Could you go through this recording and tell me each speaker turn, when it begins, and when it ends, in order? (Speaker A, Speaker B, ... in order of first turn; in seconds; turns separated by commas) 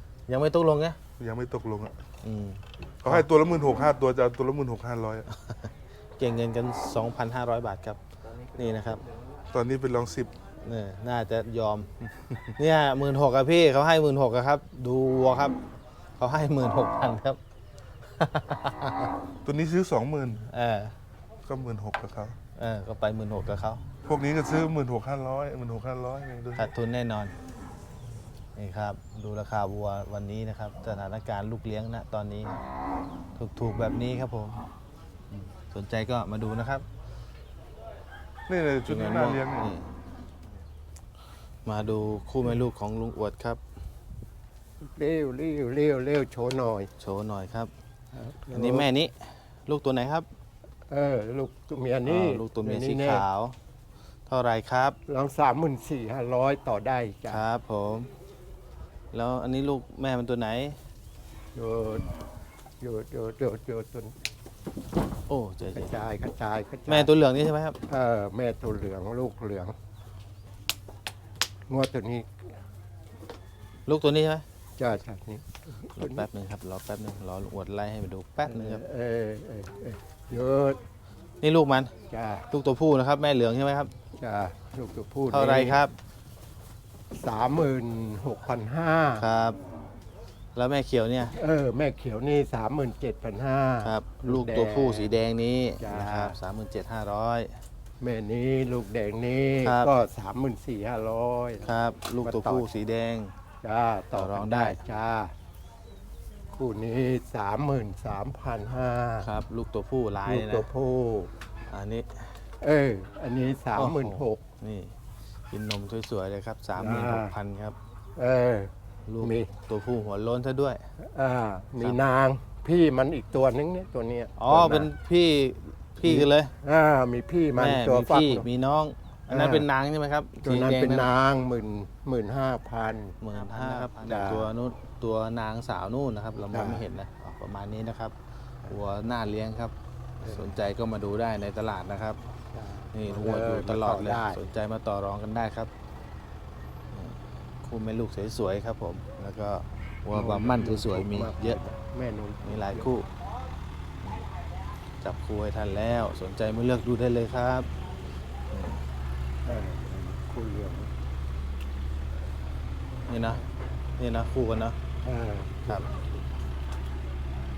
Speaker A: 0.3-1.0, Speaker B: 1.2-1.9, Speaker A: 2.2-3.2, Speaker B: 3.0-5.3, Speaker A: 5.5-8.0, Speaker A: 8.5-9.0, Speaker B: 9.5-10.3, Speaker A: 10.6-11.9, Speaker A: 12.6-15.6, Speaker A: 16.2-17.4, Speaker A: 18.2-19.1, Speaker B: 19.4-20.5, Speaker A: 20.5-20.9, Speaker B: 21.4-22.4, Speaker A: 22.5-23.8, Speaker B: 24.0-26.7, Speaker A: 26.5-27.3, Speaker A: 28.6-32.6, Speaker A: 33.4-34.6, Speaker A: 35.3-36.9, Speaker B: 38.5-39.7, Speaker A: 38.9-39.9, Speaker A: 41.6-43.6, Speaker C: 44.8-46.9, Speaker A: 47.0-47.7, Speaker C: 48.1-48.9, Speaker A: 48.5-50.3, Speaker C: 50.9-53.2, Speaker A: 52.0-53.5, Speaker A: 54.3-55.0, Speaker C: 55.1-57.4, Speaker A: 57.3-58.1, Speaker A: 59.1-60.8, Speaker C: 61.5-62.1, Speaker C: 62.8-64.1, Speaker A: 65.3-65.9, Speaker C: 65.7-67.1, Speaker A: 66.9-67.8, Speaker C: 67.8-69.7, Speaker C: 71.7-72.3, Speaker A: 73.8-74.4, Speaker C: 74.8-76.3, Speaker A: 75.9-78.8, Speaker C: 78.5-80.8, Speaker A: 81.4-81.9, Speaker C: 82.1-82.5, Speaker A: 82.5-83.9, Speaker C: 84.2-85.8, Speaker A: 85.3-86.0, Speaker C: 87.1-89.2, Speaker A: 89.2-89.6, Speaker A: 90.5-91.3, Speaker C: 91.3-95.2, Speaker A: 93.8-97.5, Speaker C: 95.8-96.4, Speaker C: 98.0-102.7, Speaker A: 99.6-99.9, Speaker A: 101.6-103.3, Speaker C: 103.6-105.3, Speaker A: 104.1-104.8, Speaker C: 106.5-109.3, Speaker A: 109.2-110.7, Speaker C: 110.2-111.3, Speaker A: 111.7-112.4, Speaker C: 112.6-114.4, Speaker A: 113.8-114.9, Speaker A: 115.5-117.8, Speaker C: 116.8-117.3, Speaker C: 118.2-119.5, Speaker A: 119.1-120.8, Speaker C: 121.0-124.9, Speaker A: 124.4-126.5, Speaker C: 126.0-128.5, Speaker A: 127.5-131.1, Speaker C: 129.3-129.7, Speaker C: 130.4-134.5, Speaker A: 133.2-139.7, Speaker C: 136.5-136.8, Speaker C: 140.2-140.5, Speaker A: 140.3-142.2, Speaker C: 142.5-144.4, Speaker A: 142.9-145.7, Speaker A: 146.9-151.6, Speaker C: 150.1-152.9, Speaker A: 152.4-153.1, Speaker A: 155.0-157.7, Speaker A: 158.5-158.8, Speaker C: 159.4-160.9, Speaker A: 163.1-163.4, Speaker A: 164.0-164.8, Speaker C: 165.0-165.9